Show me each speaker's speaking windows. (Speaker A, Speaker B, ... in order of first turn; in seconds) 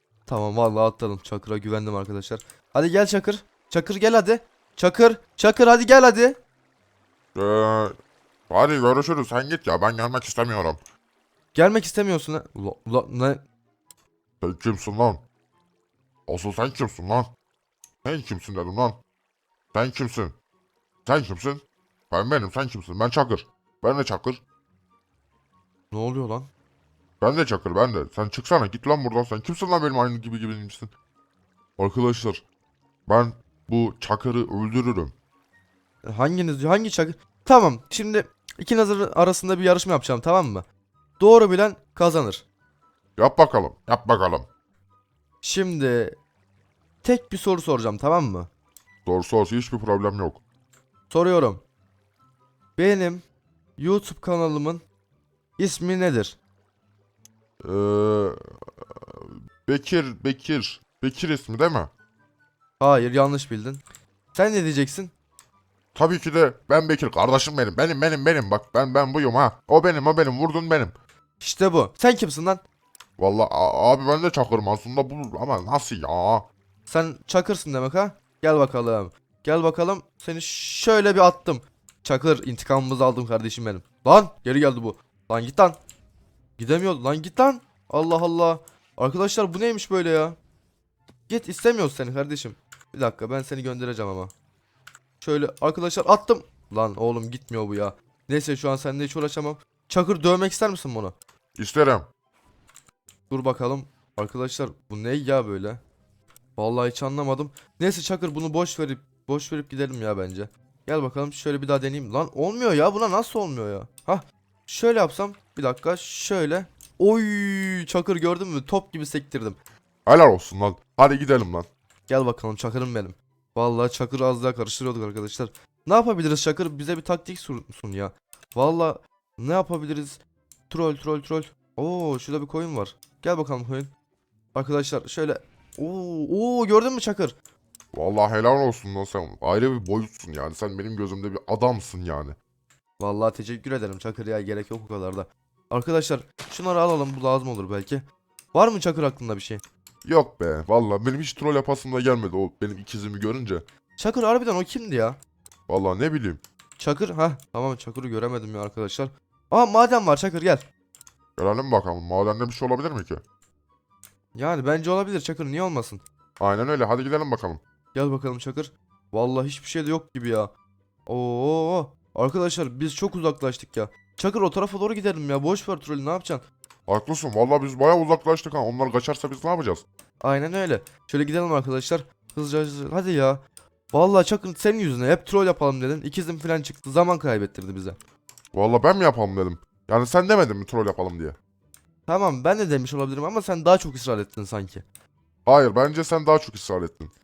Speaker A: 0.3-6.4, 11.5-13.4, 25.9-26.5, 36.0-40.6, 41.2-42.4, 45.4-46.2, 47.0-48.5, 51.1-51.6, 52.8-53.2, 53.8-54.8, 55.6-56.4, 62.8-63.8, 64.3-65.1, 71.4-72.6, 76.9-85.8, 86.6-90.4, 91.3-94.3, 95.2-101.1, 103.3-105.8, 106.6-119.6, 122.1-133.9, 134.5-137.3, 143.0-149.6, 154.0-155.2, 156.8-160.6, 164.3-166.0, 167.9-170.5, 171.1-176.4, 180.2-183.4, 183.9-188.0, 192.1-194.8
Speaker B: 7.3-7.9, 8.5-10.8, 14.4-15.2, 16.3-17.3, 18.0-19.0, 19.7-20.3, 21.1-24.4, 27.2-30.9, 31.8-32.4, 33.1-35.1, 43.2-44.5, 49.0-50.4, 57.6-58.4, 59.2-61.9, 65.9-70.9, 73.2-76.5, 101.6-102.1, 120.0-121.7, 137.9-142.3, 150.0-153.6, 155.7-156.4, 161.4-163.2, 166.4-167.6, 176.9-179.8, 188.5-191.3, 195.4-197.1